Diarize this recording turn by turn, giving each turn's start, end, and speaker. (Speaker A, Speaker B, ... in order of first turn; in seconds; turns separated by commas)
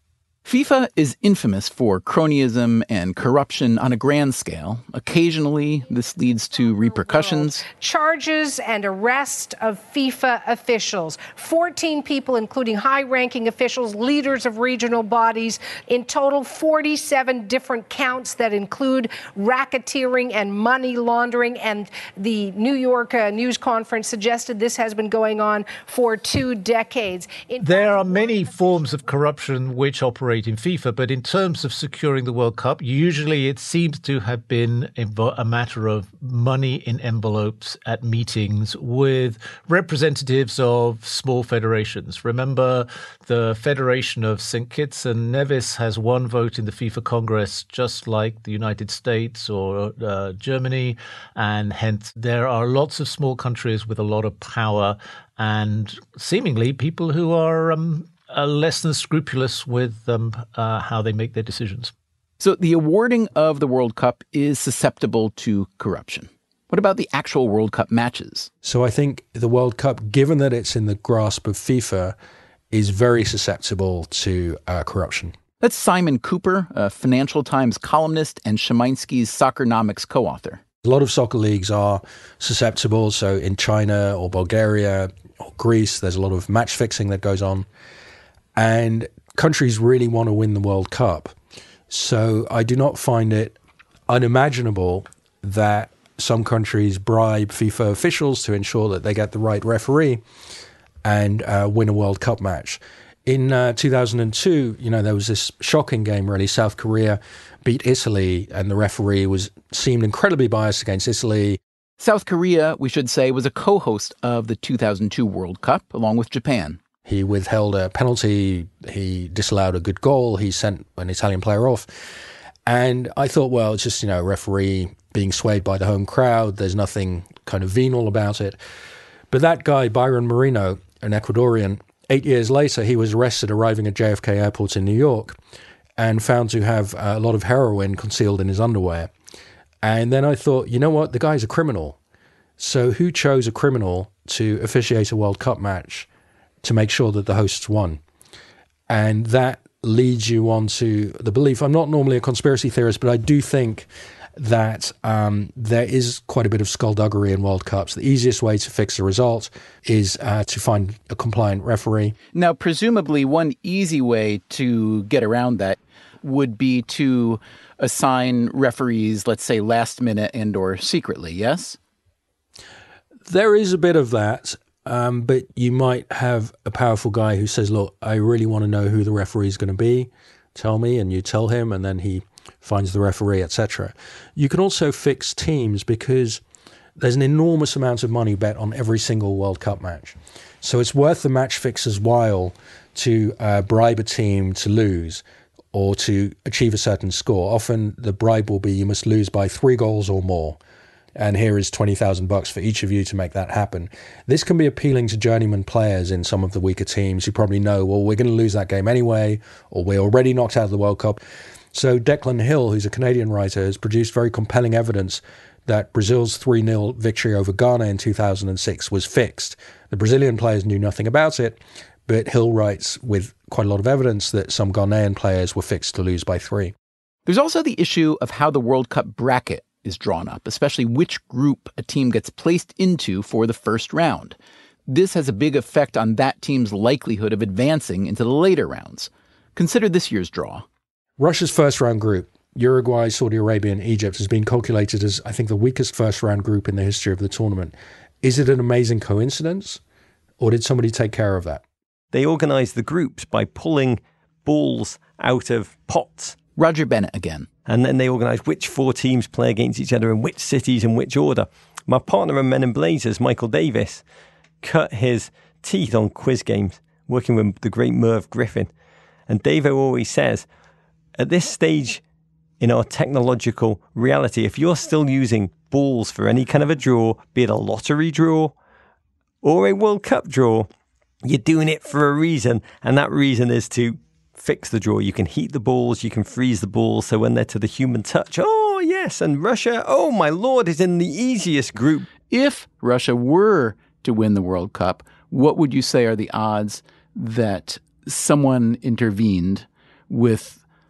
Speaker A: 0.5-7.6, Speaker B: 7.3-28.9, Speaker C: 27.6-61.9, Speaker A: 62.4-68.5, Speaker D: 68.6-72.2, Speaker D: 72.7-75.4, Speaker A: 75.6-80.6, Speaker D: 80.8-87.7, Speaker D: 88.5-91.3, Speaker D: 91.9-93.5, Speaker D: 94.1-100.2, Speaker D: 101.0-111.6, Speaker A: 112.0-116.8, Speaker D: 117.0-121.9, Speaker D: 122.7-128.6, Speaker D: 129.3-135.4, Speaker D: 136.0-139.1, Speaker D: 139.8-142.0, Speaker D: 142.6-146.1, Speaker D: 146.6-148.0, Speaker D: 148.9-162.1, Speaker A: 162.3-171.8, Speaker D: 173.3-186.4, Speaker D: 187.0-200.6, Speaker D: 201.2-211.2, Speaker D: 211.7-226.7, Speaker A: 227.3-234.4, Speaker A: 234.9-240.6, Speaker D: 241.2-249.8, Speaker D: 250.4-251.6, Speaker E: 252.1-256.4, Speaker A: 256.6-257.5, Speaker E: 257.6-264.0, Speaker E: 264.6-268.7, Speaker E: 269.3-270.4, Speaker E: 271.2-272.0, Speaker E: 272.6-278.5, Speaker E: 279.4-280.7, Speaker E: 281.2-292.1, Speaker A: 292.3-300.6